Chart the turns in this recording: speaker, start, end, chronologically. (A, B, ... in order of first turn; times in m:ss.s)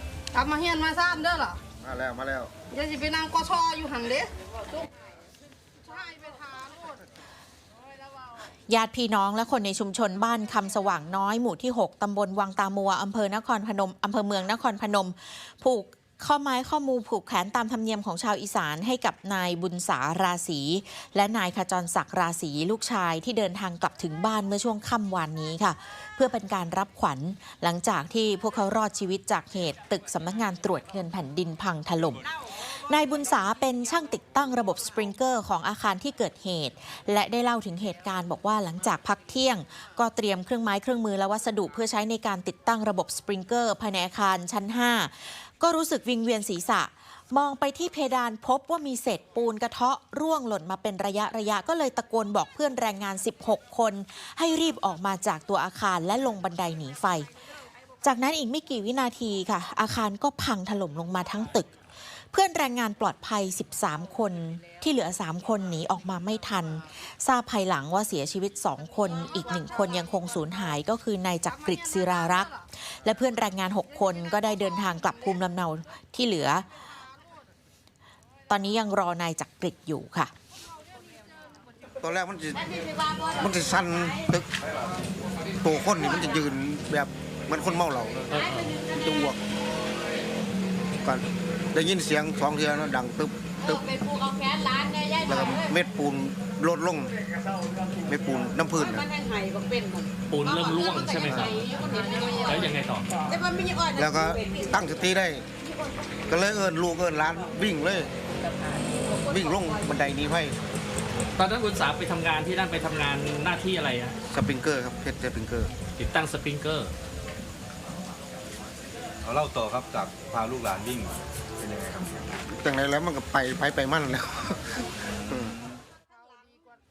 0:00.3-0:01.6 A
0:01.8-0:02.5 B
0:02.7-0:04.3 A
0:05.8-0:07.0 A
0:08.7-0:57.3 C
0:58.0-1:16.7 C
1:18.5-1:20.3 C
1:22.0-1:22.6 B
1:22.7-1:23.3 D
1:23.4-1:24.5 B
1:25.6-1:29.4 B
1:28.3-1:28.8 E
1:31.0-1:33.8 B
1:33.8-1:35.4 D
1:35.2-1:37.1 B
1:38.0-1:39.1 B
1:38.9-1:40.1 D
1:40.3-1:43.1 E
1:41.3-1:42.4 D
1:43.3-1:44.7 D
1:44.0-1:45.4 B
1:46.3-1:48.1 B
1:49.2-1:50.6 B
1:51.4-1:54.2 E
1:54.3-1:55.7 B
1:56.0-1:56.9 E
1:59.2-2:02.1 F
2:02.5-2:05.5 B
2:05.0-2:05.8 F